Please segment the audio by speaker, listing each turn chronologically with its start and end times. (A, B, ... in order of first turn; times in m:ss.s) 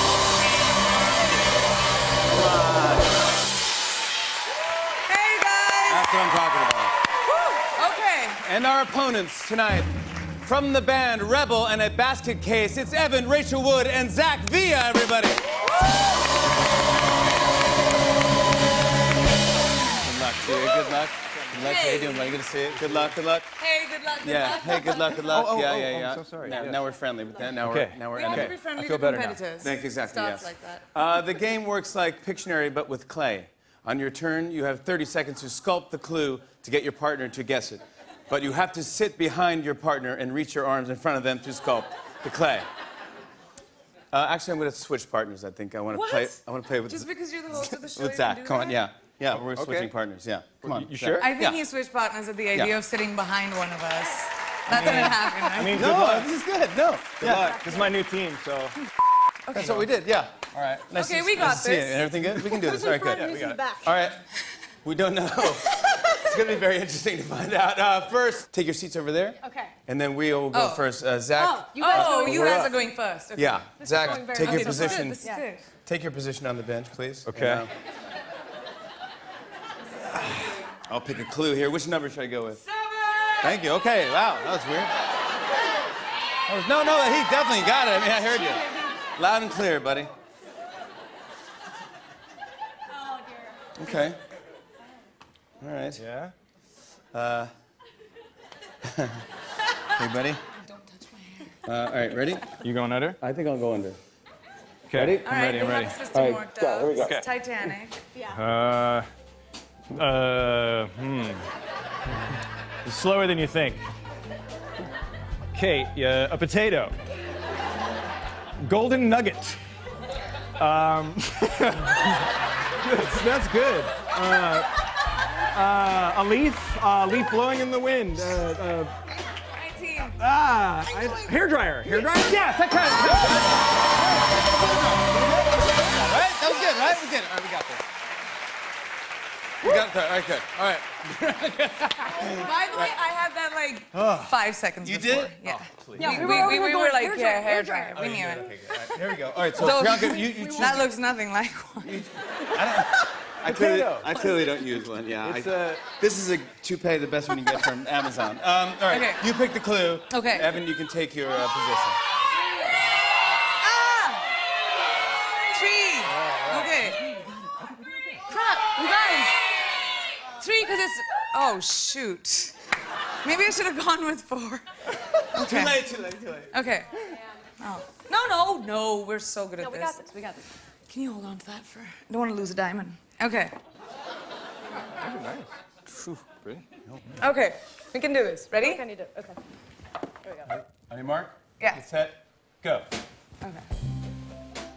0:02.3-0:03.2 A
0:05.1-0:06.1 B
0:05.9-0:06.9 A
0:07.2-0:08.4 B
0:08.4-0:15.4 A
0:20.0-0:23.5 A
0:21.5-0:22.4 B
0:22.8-0:23.1 C
0:23.6-0:25.4 B
0:24.2-0:28.6 A
0:25.2-0:26.8 C
0:27.6-0:29.4 C
0:28.1-0:30.8 B
0:29.6-0:42.7 A
0:44.1-0:51.6 A
0:45.9-0:48.8 B
0:49.3-0:49.9 C
0:50.6-0:51.3 C
0:51.2-0:55.8 B
0:54.7-0:56.3 C
0:54.7-0:57.5 A
0:57.2-0:58.8 C
0:59.5-0:59.7 B
0:59.5-1:03.3 A
0:59.6-0:59.9 C
1:00.9-1:03.0 B
1:02.7-1:03.9 D
1:03.1-1:03.6 C
1:03.8-1:04.2 A
1:04.8-1:12.7 A
1:09.4-1:09.7 D
1:10.5-1:10.8 B
1:11.4-1:12.7 D
1:11.8-1:15.6 B
1:12.3-1:12.7 C
1:13.3-1:15.2 A
1:13.8-1:15.4 D
1:15.8-1:17.7 A
1:17.2-1:17.6 C
1:20.9-1:22.6 A
1:23.4-1:24.9 A
1:26.5-1:30.1 A
1:33.0-1:33.5 D
1:33.8-1:34.2 A
1:35.6-1:36.0 A
1:36.0-1:36.3 C
1:37.1-1:37.5 A
1:38.8-1:39.2 A
1:39.9-1:40.4 A
1:40.6-1:41.6 B
1:41.6-1:42.6 A
1:42.6-1:43.2 C
1:43.2-1:44.0 A
1:44.9-1:46.0 C
1:44.9-1:45.4 A
1:45.2-1:48.0 B
1:46.1-1:47.0 A
1:46.9-1:47.3 C
1:48.3-1:49.1 C
1:49.9-1:51.5 C
1:52.8-1:53.9 C
1:55.5-1:56.9 C
1:58.6-1:59.6 C
2:00.6-2:02.2 C
2:02.8-2:04.7 C
2:05.5-2:08.9 C
2:09.6-2:10.2 B
2:10.2-2:13.5 C
2:12.9-2:13.5 A
2:14.9-2:15.6 C
2:15.6-2:17.8 A
2:19.6-2:22.9 A
2:22.2-2:28.5 B
2:24.8-2:26.7 A
2:26.0-2:28.0 D
2:27.9-2:30.9 A
2:29.5-2:32.0 B
2:31.8-2:42.0 A
2:33.4-2:34.3 C
2:35.2-2:35.8 C
2:38.9-2:39.2 B
2:40.1-2:40.5 B
2:43.6-2:44.2 B
2:45.5-2:47.0 B
2:46.1-2:48.2 C
2:48.3-2:49.4 B
2:50.4-2:52.5 B
2:53.2-2:54.6 B
2:55.3-2:56.6 A
2:55.3-2:55.8 B
2:56.5-2:56.9 B
2:57.6-3:00.0 B
2:59.6-3:00.4 D
3:00.9-3:03.5 B
3:05.0-3:05.5 C
3:06.0-3:06.6 C
3:07.2-3:08.8 B
3:08.6-3:09.4 D
3:10.4-3:12.9 A